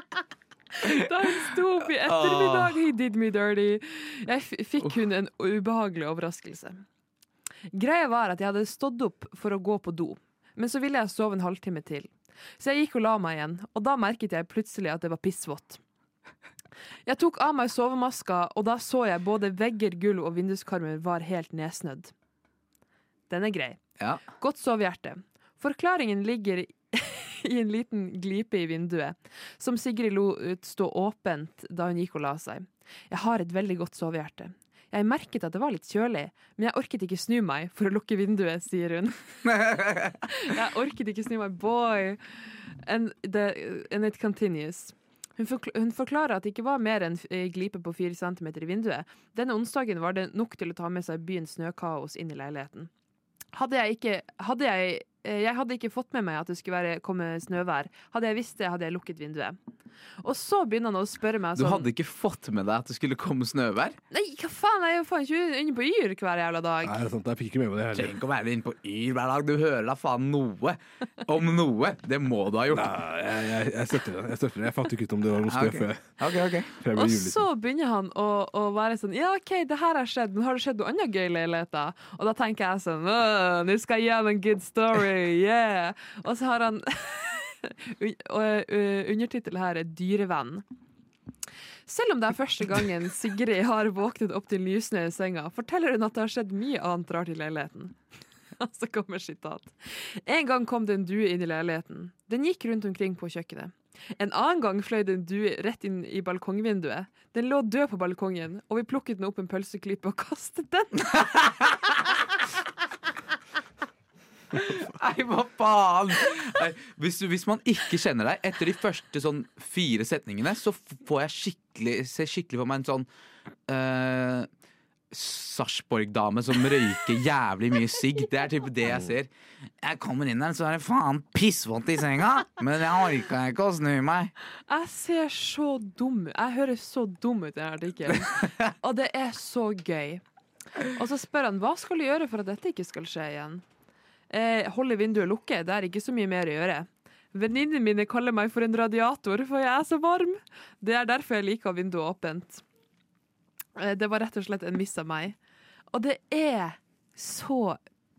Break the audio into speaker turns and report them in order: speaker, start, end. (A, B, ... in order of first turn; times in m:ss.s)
0:00.8-0:06.8 A
0:02.0-0:02.7 B
0:07.7-0:15.8 A
0:17.1-0:22.1 A
0:23.3-0:23.8 A
0:24.3-0:39.6 A
0:39.5-0:40.2 B
0:40.3-0:42.2 A
0:42.8-0:52.9 A
0:53.6-0:59.6 A
1:00.2-1:01.9 A
1:01.6-1:04.0 B
1:04.1-1:07.0 A
1:06.8-1:08.2 C
1:08.0-1:12.9 B
1:12.7-1:16.2 C
1:15.5-1:16.7 B
1:16.8-1:17.4 C
1:16.9-1:30.6 A
1:31.9-1:38.0 A
1:38.6-1:51.1 A
1:51.0-1:51.8 B
1:54.5-2:03.1 B
2:03.7-2:04.5 B
2:05.1-2:09.3 B
2:09.8-2:14.3 B
2:14.7-2:20.2 A
2:20.8-2:23.6 A
2:24.3-2:32.6 A
2:33.8-2:35.4 A
2:35.9-2:37.8 A